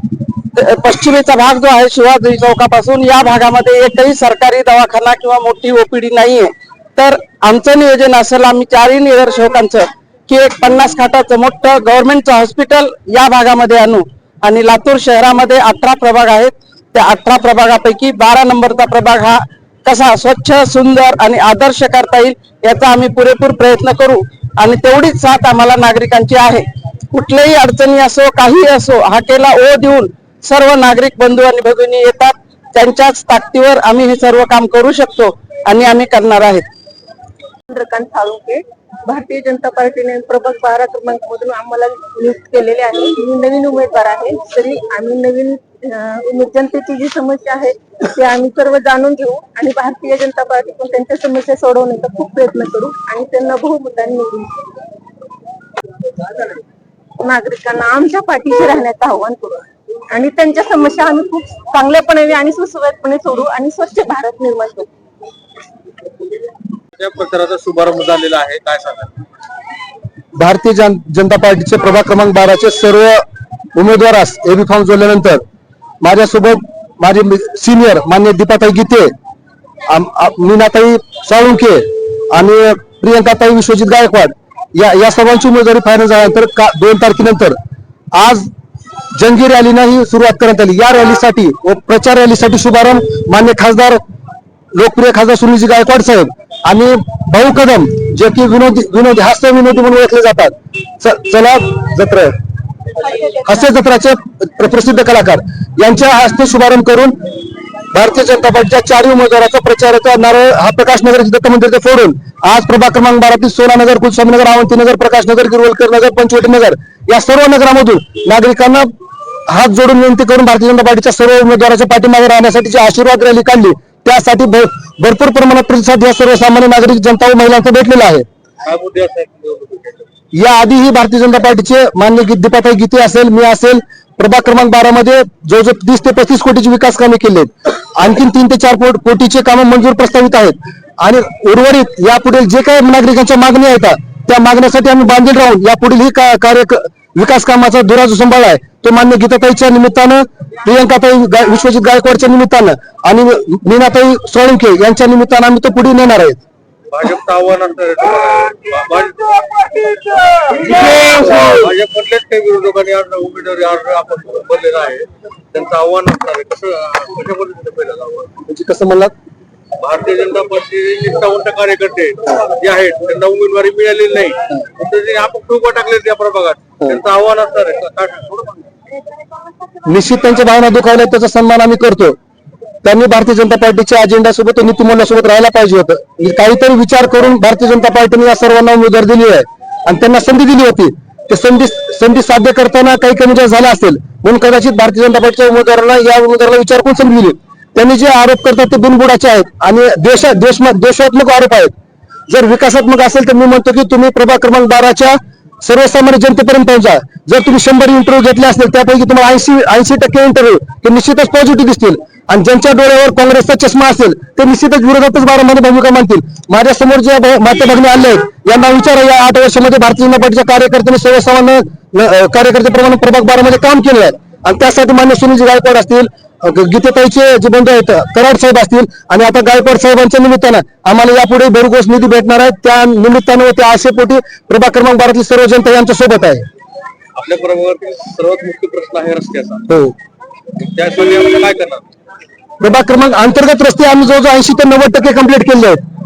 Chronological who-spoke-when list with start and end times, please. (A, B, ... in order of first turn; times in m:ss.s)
0:00.6-0:36.6 A
0:37.7-0:54.6 B
0:57.2-1:04.9 B
1:07.0-1:09.2 C
1:10.4-1:13.2 D
1:13.8-1:15.4 D
1:16.0-1:19.1 D
1:19.9-1:27.6 D
1:28.1-1:28.5 D
1:29.2-1:34.0 D
1:34.7-1:42.4 D
1:43.1-1:47.1 D
1:47.9-1:58.9 D
1:59.5-2:08.2 D
2:08.6-2:10.1 C
2:10.3-2:36.4 D
2:36.9-2:48.3 C
2:48.5-2:49.1 D
2:49.8-2:58.6 C
2:59.9-3:02.2 D
3:02.8-3:21.7 D
3:22.3-3:56.5 D
3:57.2-3:59.6 C
3:59.7-3:59.9 D
4:00.6-4:01.8 C
4:02.6-4:05.8 D